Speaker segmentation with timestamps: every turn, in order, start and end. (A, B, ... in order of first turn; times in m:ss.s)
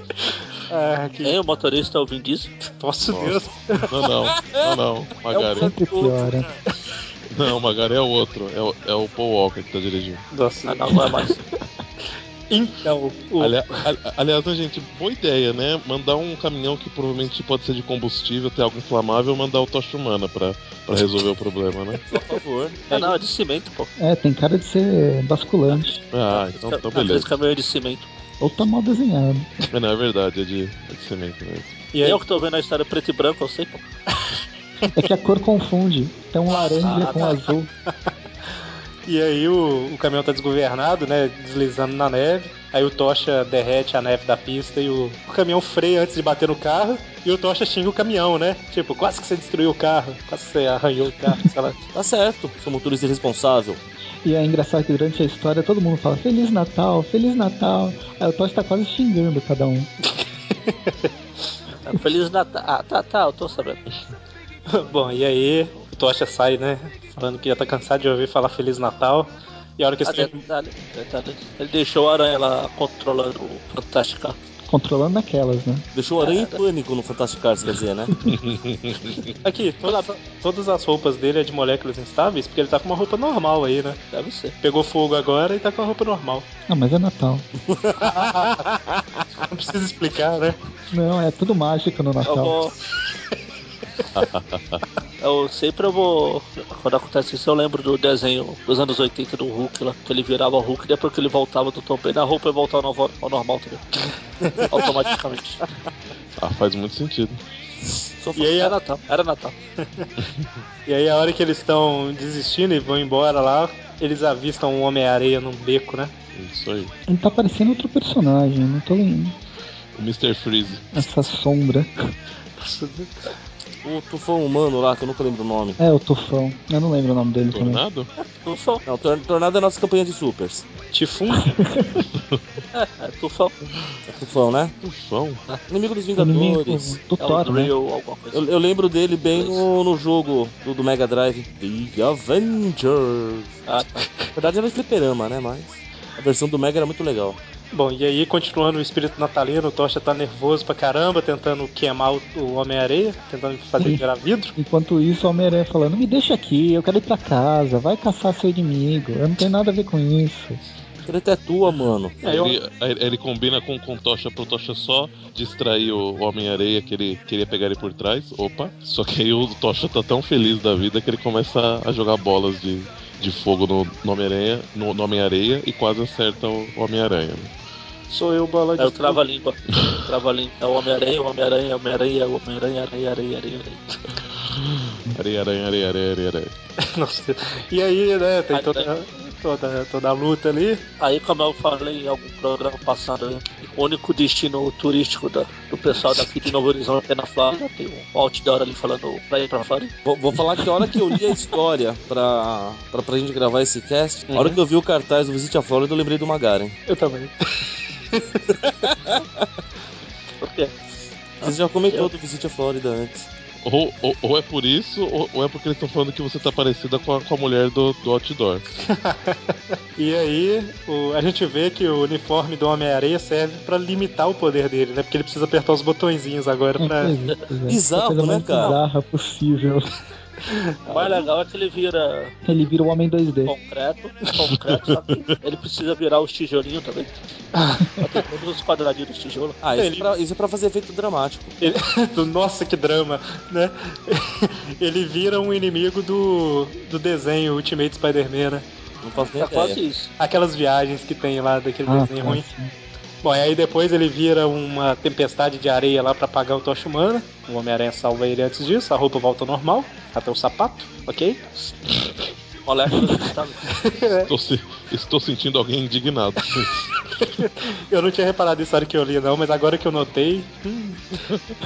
0:00.2-0:01.4 A
0:01.2-0:02.5 B
0:02.8-0:03.9 A
0:03.1-0:05.7 C
0:04.4-0:04.6 D
0:05.4-0:06.5 E
0:07.3-0:10.2 C
0:10.3-0:11.1 A
0:10.7-0:11.4 B
0:12.5-0:13.8 A
0:13.4-0:22.0 C
0:22.1-0:22.8 D
0:22.9-0:23.9 B
0:22.9-0:23.2 A
0:24.0-0:26.0 E
0:26.1-0:27.3 C
0:26.3-0:28.1 B
0:28.4-0:29.5 E
0:29.7-0:31.8 C
0:31.9-0:32.2 A
0:32.0-0:33.8 B
0:35.0-0:37.7 E
0:36.6-0:37.4 A
0:36.8-0:37.4 B
0:39.1-0:51.8 A
0:51.9-0:53.8 D
0:54.2-0:59.9 E
1:00.7-1:01.1 A
1:01.9-1:03.8 B
1:04.7-1:10.4 A
1:10.0-1:14.4 B
1:14.7-1:15.9 E
1:15.9-1:18.1 D
1:16.2-1:16.6 B
1:18.4-1:19.2 C
1:19.4-1:24.0 A
1:24.1-1:24.6 B
1:24.6-1:26.5 A
1:26.7-1:27.5 E
1:27.7-1:28.1 D
1:28.0-1:28.7 A
1:29.4-1:30.6 A
1:30.9-1:32.6 E
1:32.2-1:32.8 B
1:33.1-1:33.4 A
1:34.2-1:34.8 C
1:35.2-1:43.8 B
1:44.6-1:45.6 B
1:46.4-1:47.4 C
1:48.2-1:48.6 D
1:48.4-1:48.7 A
1:48.4-1:49.6 B
1:50.9-1:56.1 A
1:56.4-1:56.9 C
1:57.1-1:59.4 E
2:00.0-2:01.0 C
2:00.9-2:02.1 E
2:02.6-2:03.1 A
2:03.8-2:05.8 D
2:05.8-2:07.8 E
2:07.5-2:08.1 C
2:08.4-2:08.8 B
2:08.9-2:10.6 D
2:10.9-2:11.5 A
2:11.4-2:12.1 E
2:12.7-2:13.6 B
2:14.1-2:14.7 D
2:14.8-2:15.4 C
2:15.7-2:17.0 D
2:16.2-2:17.7 E
2:17.2-2:18.5 B
2:18.3-2:23.6 D
2:19.3-2:19.7 B
2:23.7-2:24.1 B
2:24.4-2:27.4 D
2:27.7-2:34.5 A
2:33.8-2:40.6 E
2:41.0-2:42.2 D
2:42.2-2:42.6 A
2:42.2-2:57.5 C
2:58.1-2:59.2 A
2:58.8-3:03.8 B
3:04.4-3:06.5 C
3:06.8-3:10.8 A
3:08.5-3:08.9 B
3:11.0-3:19.9 B
3:20.0-3:26.8 D
3:24.3-3:24.6 A
3:26.9-3:28.7 A
3:28.8-3:29.4 D
3:30.4-3:30.7 B
3:31.4-3:32.1 B
3:31.4-3:33.3 D
3:33.6-3:38.7 C
3:38.9-3:47.1 A
3:46.8-3:49.9 E
3:47.7-3:48.8 D
3:50.4-3:51.2 A
3:50.9-3:52.4 B
3:52.4-3:53.5 E
3:53.5-3:57.1 B
3:57.6-3:58.0 A
3:58.0-3:59.6 B
3:59.6-4:01.6 D
3:59.8-4:00.1 A
4:01.6-4:08.6 A
4:09.0-4:09.8 D
4:09.2-4:10.1 B
4:10.2-4:12.4 A
4:11.9-4:12.7 E
4:13.2-4:21.5 A
4:22.7-4:23.8 B
4:23.7-4:24.3 A
4:24.3-4:26.9 C
4:27.2-4:31.2 A